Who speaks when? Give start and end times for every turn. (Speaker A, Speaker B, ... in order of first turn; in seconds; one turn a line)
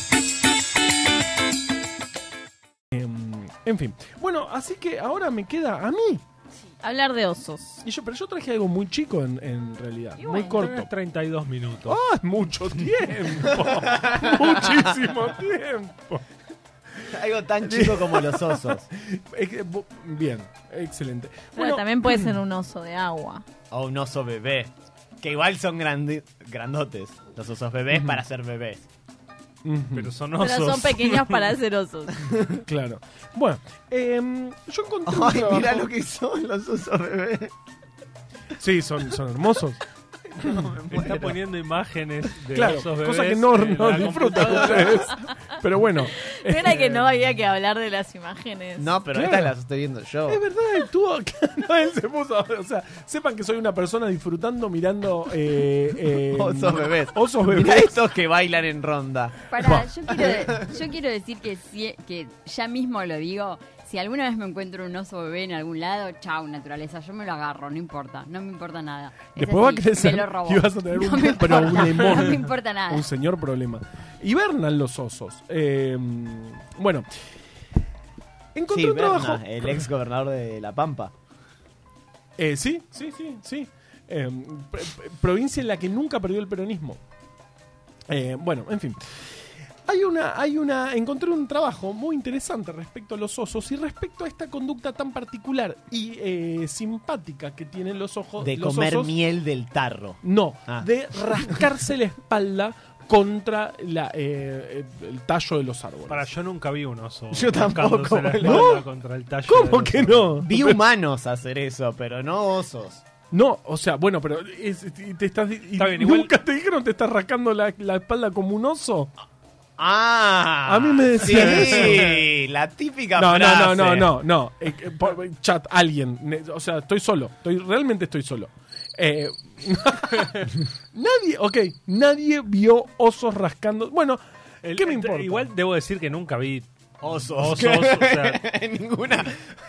Speaker A: 2.9-6.2
Speaker B: 6.5-7.8
Speaker A: 7.8-10.9
Speaker B: 10.2-10.6
Speaker C: 10.6-12.0
Speaker A: 11.8-16.2
Speaker D: 13.7-14.9
Speaker D: 17.1-18.9
Speaker A: 17.6-22.3
Speaker B: 21.6-23.4
Speaker D: 23.7-28.9
Speaker A: 27.9-28.2
Speaker A: 29.6-30.1
Speaker C: 29.9-31.5
Speaker B: 30.4-32.1
Speaker A: 32.5-35.9
Speaker D: 35.1-37.5
Speaker A: 38.6-39.8
Speaker D: 40.4-41.4
Speaker C: 40.9-45.1
Speaker A: 42.5-46.9
Speaker B: 46.2-48.9
Speaker D: 48.8-50.4
Speaker A: 49.1-49.5
Speaker A: 50.3-58.0
Speaker D: 56.3-59.5
Speaker E: 59.5-73.1
Speaker D: 60.1-60.7
Speaker A: 69.3-77.1
Speaker A: 78.5-79.9
Speaker D: 78.7-81.1
Speaker A: 82.4-87.0
Speaker A: 88.1-89.0
Speaker A: 89.9-99.1
Speaker D: 98.4-101.7
Speaker A: 100.2-106.3
Speaker C: 106.1-110.4
Speaker D: 107.3-108.7
Speaker A: 108.4-108.8
Speaker A: 109.5-110.8
Speaker D: 110.4-113.0
Speaker A: 113.3-119.1
Speaker C: 115.8-116.3
Speaker D: 119.8-124.1
Speaker A: 120.7-122.2
Speaker C: 121.4-122.1
Speaker A: 123.2-135.5
Speaker C: 134.6-136.7
Speaker D: 137.0-139.4
Speaker C: 137.3-138.4